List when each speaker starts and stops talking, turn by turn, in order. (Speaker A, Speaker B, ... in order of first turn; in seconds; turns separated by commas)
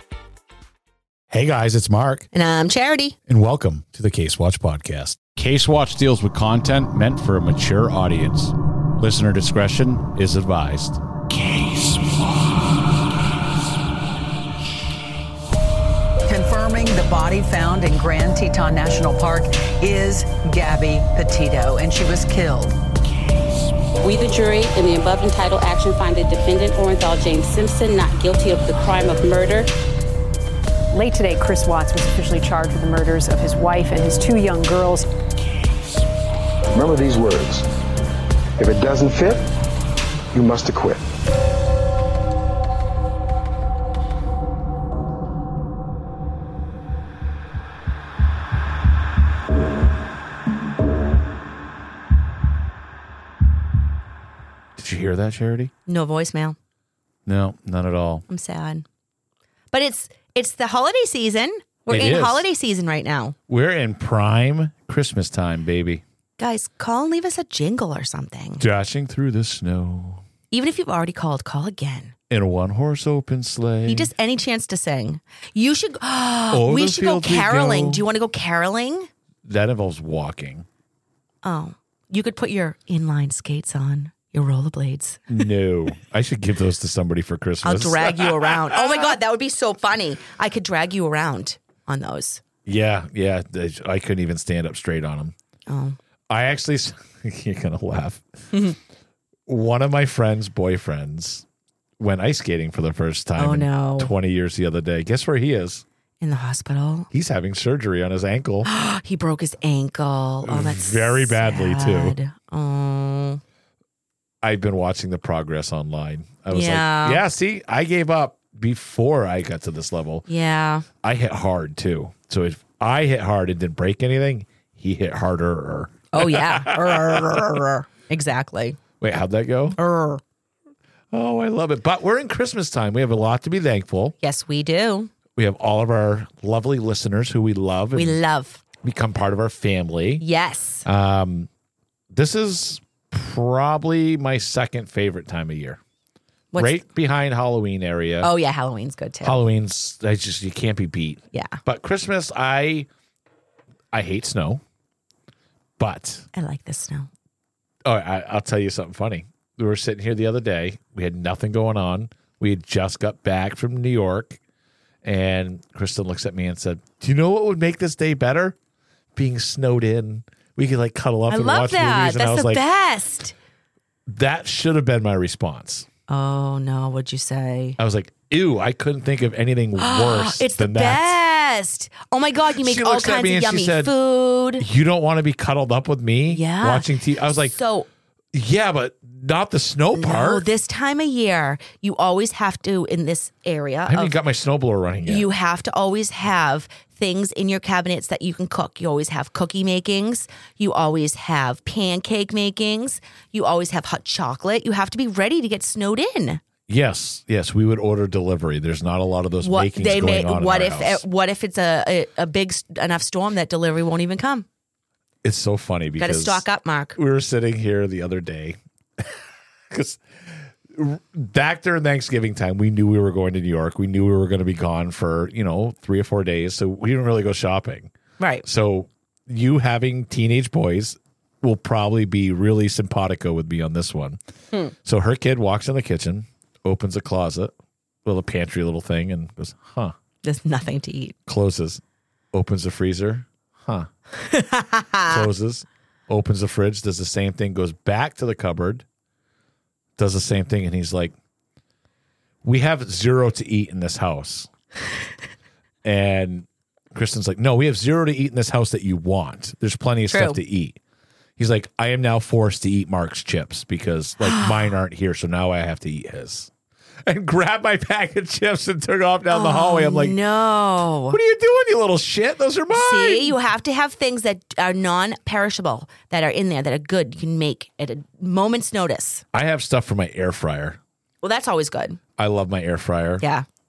Speaker A: 1.3-2.3, Speaker B: 2.3-3.1, Speaker A: 3.3-12.4, Speaker C: 16.2-22.8, Speaker D: 24.0-29.7, Speaker E: 30.9-35.1, Speaker F: 36.7-37.6, Speaker F: 38.6-39.4, Speaker F: 40.3-41.0, Speaker A: 54.8-55.7, Speaker B: 55.9-56.6, Speaker A: 57.2-58.2, Speaker B: 58.3-58.8, Speaker B: 59.7-63.4, Speaker A: 61.9-62.5, Speaker A: 63.5-66.0, Speaker B: 66.4-68.6, Speaker A: 68.6-70.2, Speaker B: 70.5-72.1, Speaker A: 72.3-74.1, Speaker B: 73.8-79.1, Speaker A: 76.5-78.0, Speaker A: 79.4-80.7, Speaker B: 81.4-85.3, Speaker A: 85.3-89.1, Speaker B: 87.6-92.4, Speaker A: 92.7-95.3, Speaker B: 95.7-96.0, Speaker A: 96.3-98.2, Speaker A: 99.5-101.4, Speaker A: 102.0-105.8, Speaker B: 103.4-104.1, Speaker B: 106.2-107.1, Speaker A: 107.1-108.7, Speaker B: 108.6-113.4, Speaker A: 110.4-112.1, Speaker A: 114.4-120.3, Speaker B: 116.5-117.2, Speaker B: 120.3-120.8, Speaker A: 121.0-127.7, Speaker B: 126.1-128.8, Speaker A: 129.0-129.8, Speaker B: 129.8-130.2, Speaker A: 131.1-134.2, Speaker B: 134.2-135.1, Speaker A: 135.3-138.2, Speaker B: 137.9-138.6, Speaker A: 138.8-140.2, Speaker B: 140.2-140.8, Speaker A: 140.8-141.5, Speaker A: 142.1-145.8, Speaker B: 146.5-146.8, Speaker A: 146.6-148.3, Speaker B: 148.2-149.4, Speaker A: 149.2-152.9, Speaker B: 151.3-151.6, Speaker A: 153.9-154.6, Speaker A: 155.8-156.2, Speaker B: 156.3-157.1, Speaker A: 157.8-164.4, Speaker A: 165.0-168.6, Speaker A: 169.1-172.6, Speaker B: 171.3-173.3, Speaker A: 174.1-175.9, Speaker B: 176.1-177.8, Speaker A: 177.8-181.2, Speaker B: 179.8-184.6, Speaker A: 182.5-183.9, Speaker A: 184.6-187.6, Speaker B: 186.3-187.9, Speaker A: 188.3-190.4, Speaker B: 189.9-194.2, Speaker A: 193.9-195.3, Speaker B: 195.1-206.4, Speaker A: 206.7-211.0, Speaker B: 209.4-214.4, Speaker A: 215.2-219.1, Speaker B: 216.0-217.0, Speaker A: 219.7-227.9, Speaker B: 228.2-228.4, Speaker A: 228.4-234.2, Speaker A: 234.8-237.5, Speaker A: 238.0-239.9, Speaker B: 240.2-241.1, Speaker A: 241.3-241.8, Speaker A: 242.3-243.9, Speaker B: 244.2-245.2, Speaker A: 245.1-248.8, Speaker A: 250.0-251.1, Speaker A: 252.4-254.5, Speaker A: 255.8-260.8, Speaker B: 260.1-260.4, Speaker A: 261.4-266.5, Speaker B: 264.2-264.5, Speaker A: 267.1-270.2, Speaker B: 269.3-271.2, Speaker A: 271.1-273.4, Speaker B: 272.7-279.2, Speaker A: 279.3-280.8, Speaker B: 281.2-282.0, Speaker A: 282.2-283.2